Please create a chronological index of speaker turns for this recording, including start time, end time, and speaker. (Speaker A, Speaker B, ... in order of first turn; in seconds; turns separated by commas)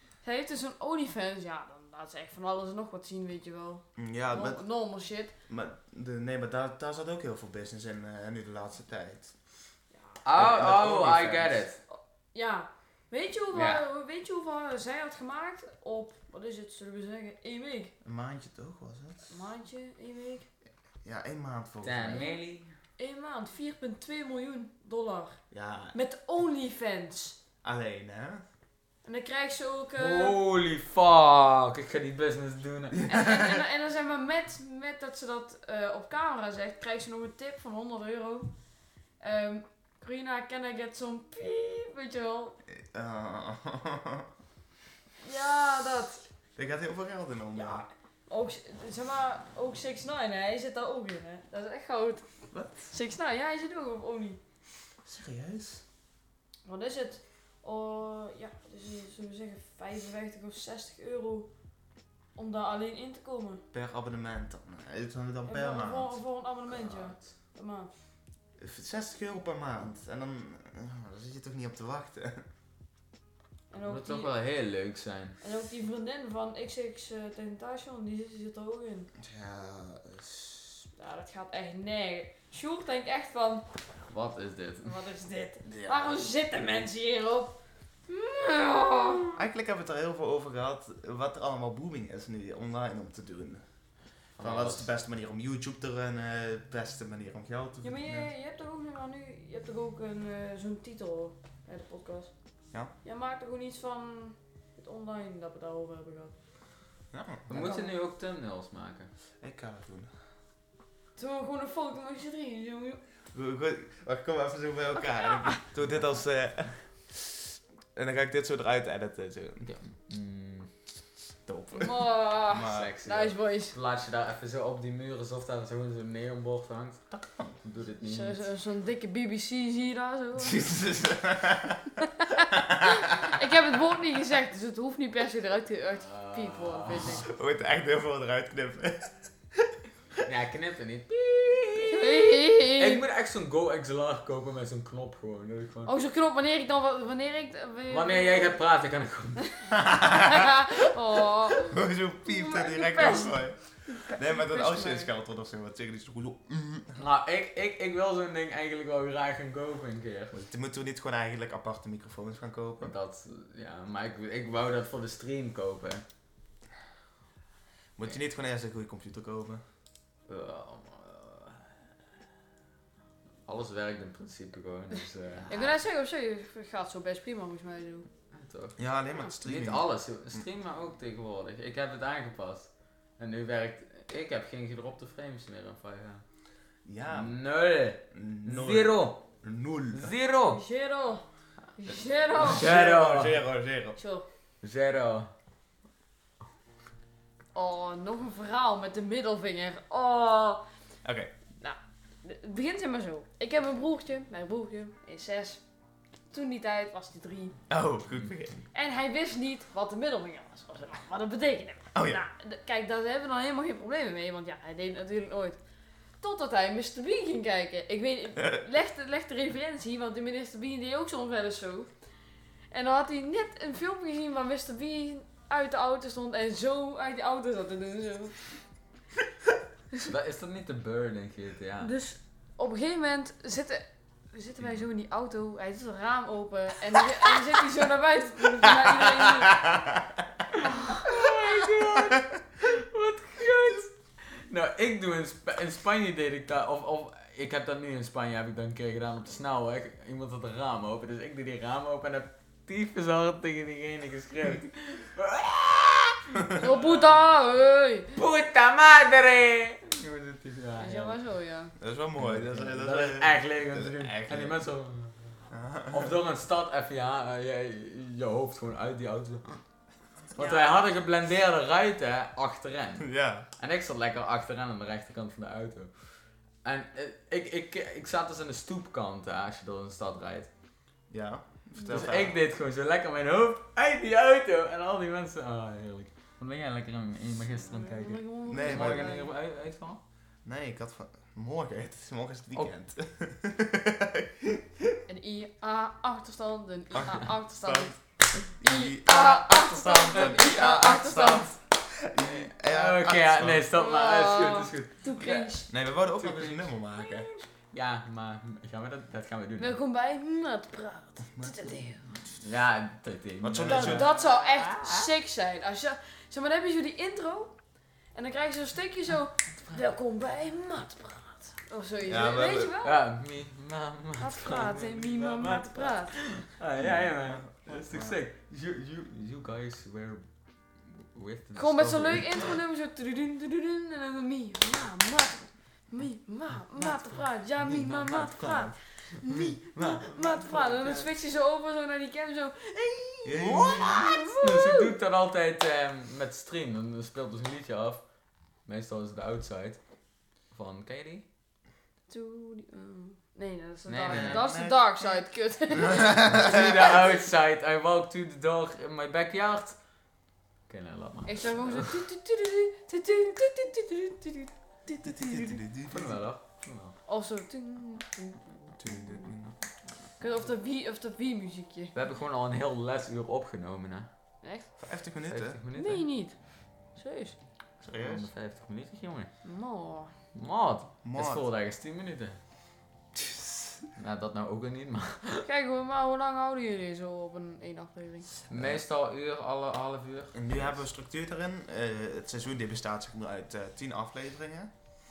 Speaker A: 0.2-5.3, Speaker B: 4.0-4.6, Speaker B: 5.5-9.3, Speaker A: 9.9-10.2, Speaker C: 10.2-11.8, Speaker B: 10.3-11.7, Speaker A: 11.9-17.9, Speaker C: 13.5-13.8, Speaker B: 18.0-19.4, Speaker A: 19.3-20.5, Speaker B: 21.0-22.2, Speaker C: 21.8-22.7, Speaker A: 23.0-25.4, Speaker B: 25.5-25.9, Speaker A: 25.9-27.4, Speaker B: 27.6-28.4, Speaker A: 29.0-30.4, Speaker C: 30.0-33.0, Speaker B: 33.0-33.6, Speaker A: 33.1-38.5, Speaker A: 39.2-42.6, Speaker B: 42.7-44.3, Speaker A: 45.2-46.2, Speaker B: 46.6-47.9, Speaker A: 47.5-52.3, Speaker B: 52.5-52.9, Speaker A: 52.9-54.4, Speaker B: 55.0-55.8, Speaker A: 56.6-61.5, Speaker A: 62.4-63.6, Speaker B: 63.7-66.2, Speaker A: 65.5-67.9, Speaker C: 66.7-67.2, Speaker B: 68.6-72.4, Speaker A: 73.7-74.3, Speaker C: 73.8-75.4, Speaker A: 75.4-79.1, Speaker B: 79.2-80.9, Speaker A: 81.0-83.7, Speaker C: 84.1-85.0, Speaker A: 84.8-89.4, Speaker B: 85.7-86.1, Speaker B: 89.3-93.6, Speaker C: 94.4-94.9, Speaker B: 94.4-98.3, Speaker A: 97.8-102.3, Speaker A: 103.0-106.3, Speaker B: 107.1-107.6, Speaker C: 107.5-109.1, Speaker A: 107.5-107.9, Speaker B: 109.4-110.1, Speaker A: 111.2-113.0, Speaker B: 113.3-119.7, Speaker A: 115.0-115.6, Speaker C: 119.6-120.7, Speaker B: 121.5-122.9, Speaker A: 121.7-123.8, Speaker C: 122.6-127.0, Speaker B: 127.1-127.5, Speaker C: 127.6-128.4, Speaker A: 128.0-130.7, Speaker B: 130.3-131.9, Speaker A: 132.0-137.3, Speaker B: 132.5-133.4, Speaker C: 135.9-137.2, Speaker B: 136.9-139.8, Speaker C: 140.2-145.9, Speaker A: 141.9-143.0, Speaker A: 145.9-148.6, Speaker C: 147.9-149.5, Speaker A: 149.4-155.1, Speaker B: 149.7-150.7, Speaker B: 151.5-157.0, Speaker C: 157.0-160.4, Speaker B: 160.3-162.9, Speaker C: 162.8-166.0, Speaker B: 167.9-169.6, Speaker C: 170.3-171.7, Speaker C: 173.4-175.7, Speaker B: 175.4-175.7, Speaker A: 175.5-178.1, Speaker C: 178.3-178.8, Speaker B: 178.8-180.4, Speaker C: 179.4-186.2, Speaker B: 186.8-187.3, Speaker C: 187.1-189.2, Speaker B: 188.1-190.1, Speaker C: 189.9-190.6, Speaker A: 190.5-191.2, Speaker A: 191.8-192.7, Speaker B: 192.3-194.0, Speaker C: 192.4-193.4, Speaker A: 194.0-194.2, Speaker C: 194.6-195.3, Speaker A: 197.5-200.6, Speaker B: 201.0-201.3, Speaker A: 201.6-205.6, Speaker A: 206.3-207.6, Speaker B: 207.7-208.6, Speaker A: 208.7-215.6, Speaker B: 211.9-212.2, Speaker A: 216.2-221.9, Speaker A: 222.7-228.6, Speaker C: 230.0-231.9, Speaker A: 231.8-239.8, Speaker B: 238.6-240.4, Speaker C: 240.5-257.0, Speaker A: 240.6-241.1, Speaker A: 256.6-258.1, Speaker C: 258.1-261.2, Speaker A: 260.8-261.7, Speaker B: 261.8-264.6, Speaker C: 262.2-269.6, Speaker B: 265.5-266.1, Speaker C: 270.3-276.1, Speaker A: 270.4-270.7, Speaker B: 273.0-273.5, Speaker C: 276.6-280.5, Speaker B: 281.1-282.4, Speaker C: 281.9-290.0, Speaker A: 287.7-289.3, Speaker B: 288.5-289.1, Speaker B: 290.4-295.0, Speaker A: 295.1-301.5, Speaker B: 296.9-297.9, Speaker B: 298.5-303.7, Speaker C: 302.2-305.5, Speaker A: 303.7-305.7, Speaker B: 305.7-307.3, Speaker C: 306.2-306.7, Speaker C: 307.7-309.8, Speaker A: 309.6-312.1, Speaker B: 311.3-312.4, Speaker C: 312.4-315.1, Speaker B: 313.4-314.1, Speaker A: 313.6-317.5, Speaker A: 318.1-323.0, Speaker B: 322.0-322.7, Speaker C: 322.8-330.3, Speaker A: 324.2-326.2, Speaker B: 326.8-328.2, Speaker C: 330.9-332.5, Speaker A: 331.6-344.9, Speaker B: 337.6-340.7, Speaker C: 340.3-341.1, Speaker B: 343.2-344.3, Speaker C: 343.4-348.0, Speaker C: 348.6-349.8, Speaker C: 350.5-351.2, Speaker A: 352.1-356.9, Speaker C: 353.9-354.5, Speaker B: 354.1-355.2, Speaker B: 355.7-356.9, Speaker C: 355.9-359.8, Speaker C: 360.7-362.0, Speaker A: 361.2-365.6, Speaker B: 365.0-366.2, Speaker C: 365.9-366.9, Speaker A: 367.1-369.3, Speaker B: 368.8-369.5, Speaker A: 370.2-371.9, Speaker C: 371.9-374.1, Speaker A: 374.4-374.7, Speaker B: 374.8-375.6, Speaker C: 375.3-376.0, Speaker A: 375.7-376.4, Speaker A: 376.9-377.4, Speaker B: 377.8-378.3, Speaker C: 378.0-379.3, Speaker A: 379.4-380.1, Speaker C: 380.3-382.4, Speaker B: 381.0-381.5, Speaker B: 383.2-383.8, Speaker C: 383.9-385.4, Speaker A: 385.4-388.3, Speaker C: 388.5-390.4, Speaker B: 388.5-388.8, Speaker B: 390.3-394.7